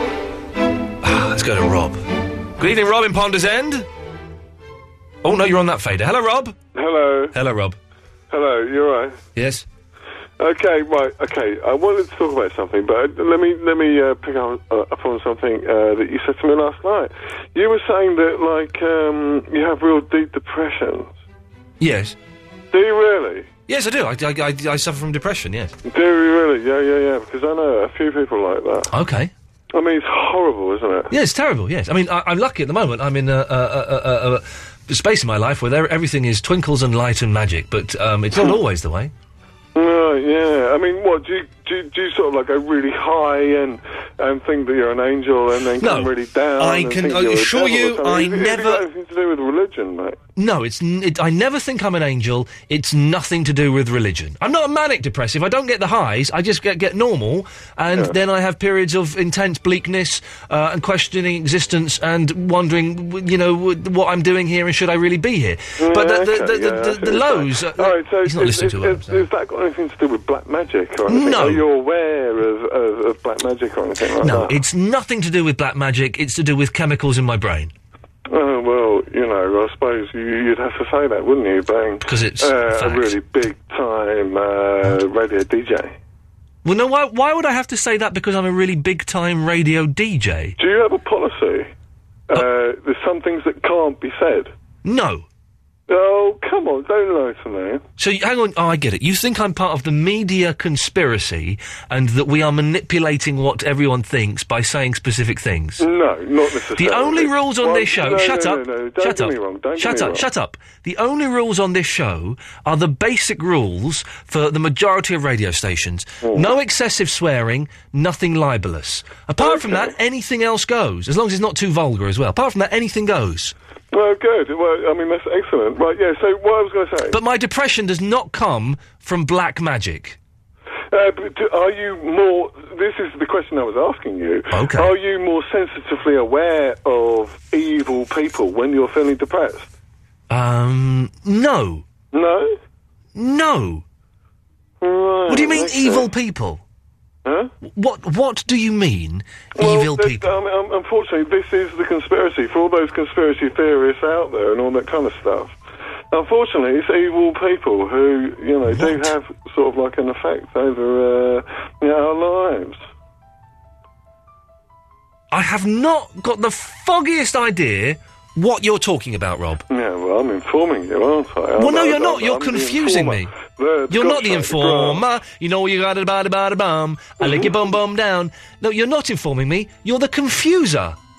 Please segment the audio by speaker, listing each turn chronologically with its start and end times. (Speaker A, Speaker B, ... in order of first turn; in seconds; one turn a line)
Speaker A: 1.0-2.0
Speaker A: 2.6-3.9
Speaker A: 5.2-6.5
Speaker B: 6.7-7.3
Speaker A: 7.3-7.8
Speaker B: 8.3-9.2
Speaker A: 9.4-9.7
Speaker B: 10.4-21.1
Speaker A: 21.8-22.1
Speaker B: 22.7-23.5
Speaker A: 23.7-25.7
Speaker B: 25.8-28.9
Speaker A: 28.9-29.3
Speaker B: 29.7-31.1
Speaker A: 31.1-39.1
Speaker B: 39.7-50.2
Speaker A: 45.8-48.9
Speaker A: 50.4-69.3
Speaker B: 65.8-74.6
Speaker A: 71.1-71.6
Speaker A: 74.2-77.7
Speaker B: 78.3-85.9
Speaker A: 82.0-83.2
Speaker A: 86.6-90.6
Speaker B: 90.6-91.7
Speaker B: 92.3-94.5
Speaker A: 94.8-95.2
Speaker B: 95.9-97.8
Speaker A: 98.0-105.9
Speaker B: 105.8-110.2
Speaker A: 106.8-123.5
Speaker B: 116.2-116.5
Speaker B: 119.4-119.9
Speaker B: 123.9-127.2
Speaker A: 127.1-130.2
Speaker B: 130.9-139.7
Speaker A: 134.5-134.9
Speaker A: 140.3-141.8
Speaker B: 142.1-142.6
Speaker A: 143.2-143.8
Speaker B: 144.8-146.1
Speaker A: 145.3-146.6
Speaker B: 147.2-147.5
Speaker A: 147.6-150.3
Speaker B: 149.6-155.6
Speaker B: 156.1-162.8
Speaker A: 158.7-159.1
Speaker A: 165.3-169.6
Speaker B: 169.7-175.1
Speaker A: 171.6-173.3
Speaker A: 173.9-180.9
Speaker B: 177.2-177.7